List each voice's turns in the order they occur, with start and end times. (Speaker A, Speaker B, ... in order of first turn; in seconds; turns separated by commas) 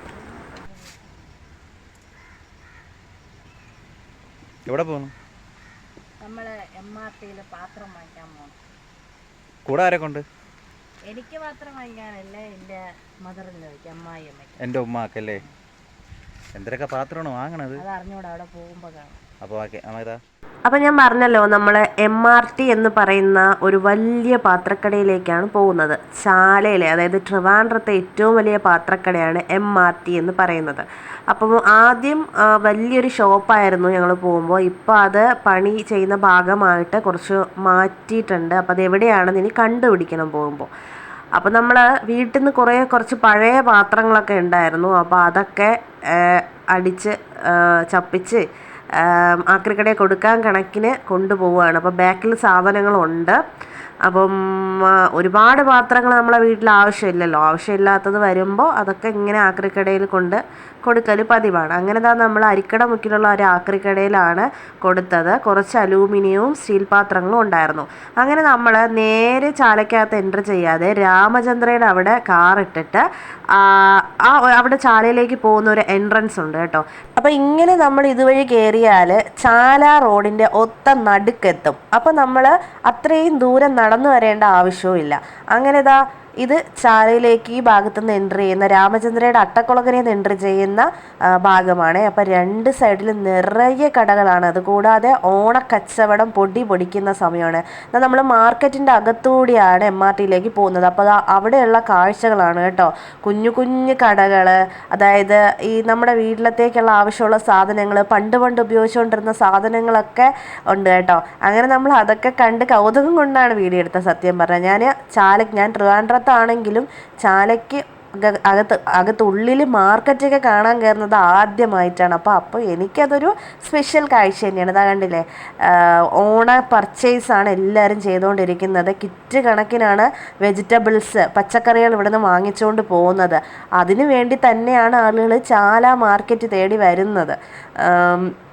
Speaker A: 0.2-1.2, Speaker B: 4.7-5.1, Speaker A: 6.2-8.6, Speaker B: 9.7-10.2, Speaker A: 11.1-14.6, Speaker B: 14.6-15.4, Speaker B: 16.6-17.8, Speaker A: 17.8-19.2, Speaker B: 19.4-20.2, Speaker C: 20.7-40.7, Speaker C: 41.4-48.5, Speaker C: 49.0-53.4, Speaker C: 54.0-138.3